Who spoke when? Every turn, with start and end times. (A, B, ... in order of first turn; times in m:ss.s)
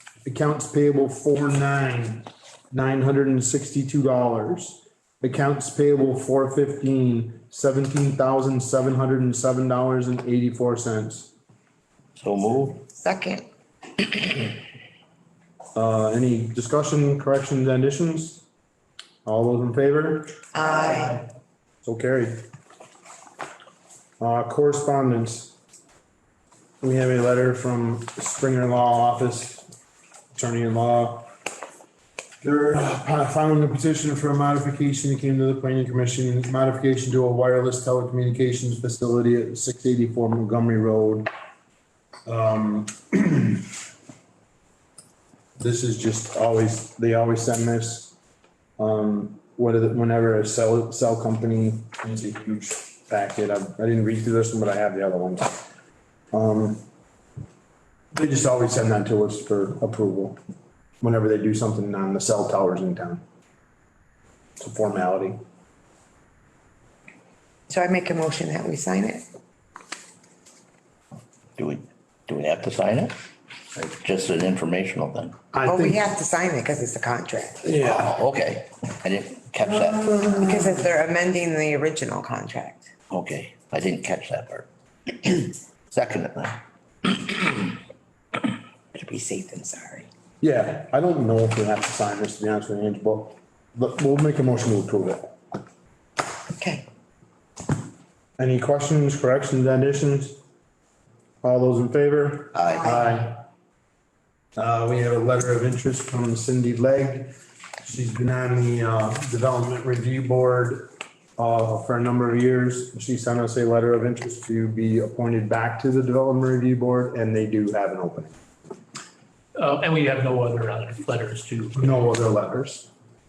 0:00.2-0:11.3 A
0:12.2-0:12.8 B
0:12.9-0:13.4 C
0:15.7-0:18.4 A
0:19.2-0:20.8 A
0:20.5-0:21.2 C
0:21.8-0:22.4 A
0:24.2-0:25.6 A
0:26.8-0:29.7 A
0:30.3-0:31.3 A
0:32.4-0:41.3 A
0:42.2-0:43.7 A
0:45.6-0:48.1 A
0:48.8-0:55.6 A
0:56.3-0:56.8 A
0:58.1-1:00.4 A
1:01.0-1:03.2 A
1:04.6-1:05.4 A
1:07.7-1:09.2 C
1:11.6-1:13.2 B
1:13.7-1:15.3 B
1:15.5-1:16.1 A
1:15.6-1:17.7 C
1:17.6-1:18.1 A
1:17.8-1:20.4 B
1:20.4-1:22.9 C
1:23.1-1:27.6 B
1:28.9-1:30.1 C
1:30.4-1:35.4 A
1:36.6-1:36.9 C
1:38.4-1:40.4 A
1:41.4-1:43.4 A
1:42.5-1:43.0 B
1:44.6-1:58.3 A
1:59.6-2:01.9 D
2:01.8-2:02.9 A